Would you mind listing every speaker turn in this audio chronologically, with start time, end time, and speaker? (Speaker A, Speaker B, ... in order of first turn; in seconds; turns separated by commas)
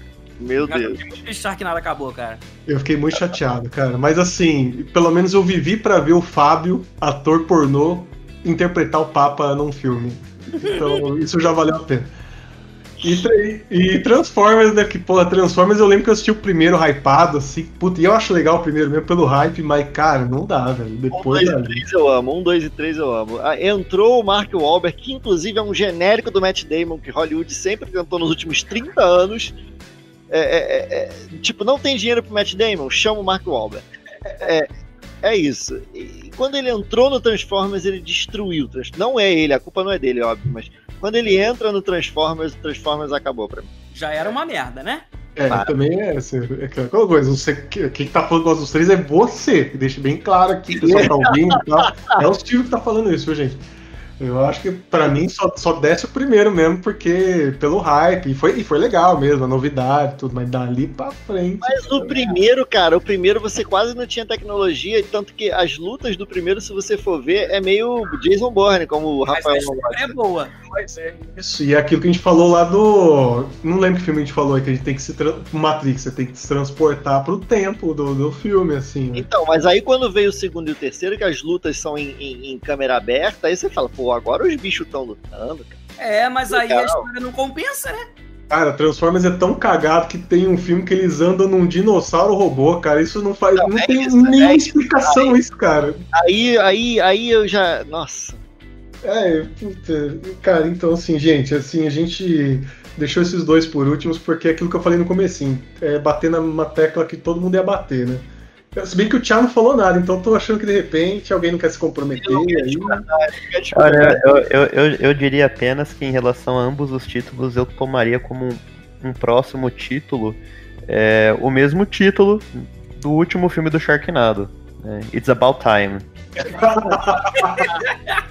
Speaker A: 0.4-1.0, Speaker B: 0.7-2.4, Speaker C: 2.7-12.1, Speaker B: 10.6-11.0, Speaker C: 13.0-21.8, Speaker A: 21.1-29.5, Speaker A: 30.3-33.8, Speaker A: 34.4-34.7, Speaker A: 35.2-43.7, Speaker B: 43.9-45.0, Speaker C: 45.4-53.6, Speaker A: 50.8-51.2, Speaker C: 54.2-62.4, Speaker A: 61.6-70.1, Speaker B: 69.3-70.6, Speaker C: 70.8-79.3, Speaker A: 79.1-85.8, Speaker B: 86.0-88.0, Speaker A: 86.5-87.0, Speaker C: 88.5-96.0, Speaker A: 93.5-95.3, Speaker A: 96.1-98.4, Speaker C: 99.0-113.0, Speaker A: 112.2-114.5, Speaker D: 113.7-126.0, Speaker C: 126.4-127.8